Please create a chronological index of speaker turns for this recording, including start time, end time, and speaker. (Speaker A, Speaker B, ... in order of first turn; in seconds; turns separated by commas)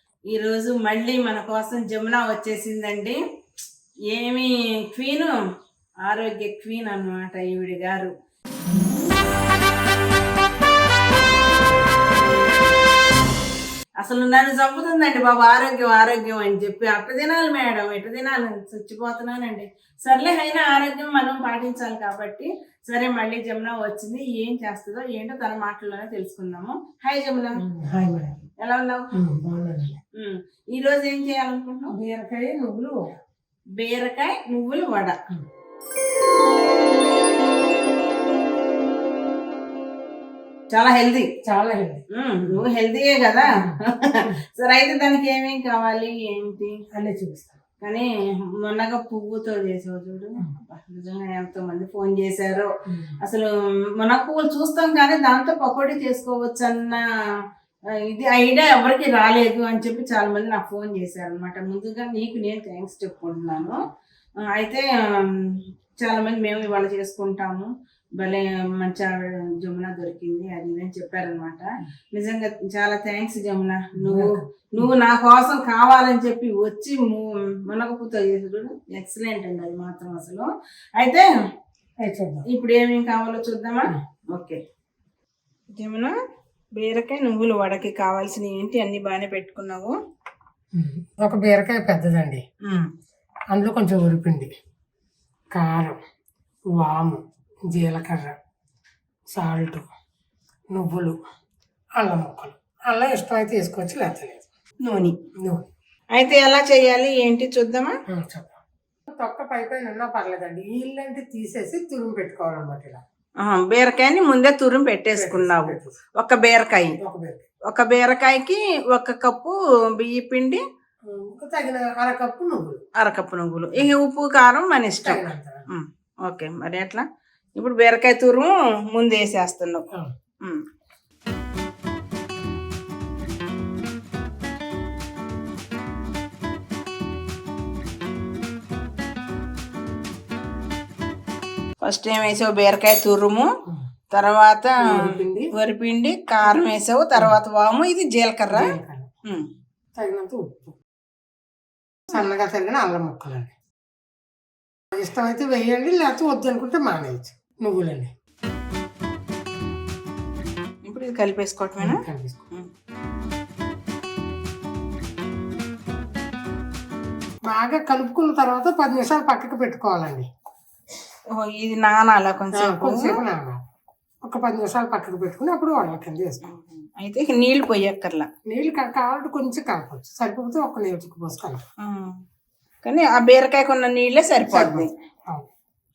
Speaker A: 0.3-3.2, Speaker A: 4.1-5.3, Speaker A: 6.0-8.1, Speaker A: 14.0-27.6, Speaker B: 27.6-28.4, Speaker A: 28.6-29.1, Speaker B: 29.1-30.0, Speaker A: 30.2-31.9, Speaker B: 31.9-33.0, Speaker A: 33.8-35.1, Speaker A: 40.7-41.3, Speaker B: 41.5-42.0, Speaker A: 42.1-46.8, Speaker B: 43.5-44.4, Speaker B: 46.9-47.6, Speaker A: 47.8-52.7, Speaker B: 52.9-53.2, Speaker A: 53.2-53.5, Speaker A: 54.0-57.0, Speaker A: 58.1-63.8, Speaker A: 64.5-81.3, Speaker B: 74.0-74.9, Speaker B: 82.0-82.5, Speaker A: 82.5-84.6, Speaker A: 85.7-86.1, Speaker A: 86.8-89.9, Speaker B: 90.8-92.4, Speaker B: 93.5-94.5, Speaker B: 95.5-96.0, Speaker B: 96.8-98.3, Speaker B: 99.3-99.9, Speaker B: 100.7-101.2, Speaker B: 102.0-104.5, Speaker A: 104.8-105.2, Speaker B: 105.4-105.7, Speaker A: 106.2-107.9, Speaker B: 108.1-108.6, Speaker B: 109.1-113.0, Speaker A: 113.4-117.0, Speaker B: 115.1-116.0, Speaker B: 117.0-117.5, Speaker A: 117.7-120.6, Speaker B: 121.1-122.8, Speaker A: 123.0-127.0, Speaker B: 125.0-125.7, Speaker A: 127.6-129.8, Speaker A: 141.8-143.5, Speaker A: 144.1-148.7, Speaker B: 144.8-145.5, Speaker B: 148.5-149.1, Speaker B: 150.0-150.8, Speaker B: 152.1-153.5, Speaker B: 154.9-158.1, Speaker A: 160.8-162.7, Speaker B: 161.8-162.4, Speaker B: 167.5-170.3, Speaker A: 171.3-173.2, Speaker B: 172.5-173.6, Speaker B: 174.2-176.4, Speaker A: 176.4-178.3, Speaker B: 178.5-181.6, Speaker A: 181.8-182.2, Speaker A: 182.8-184.9, Speaker B: 184.4-185.5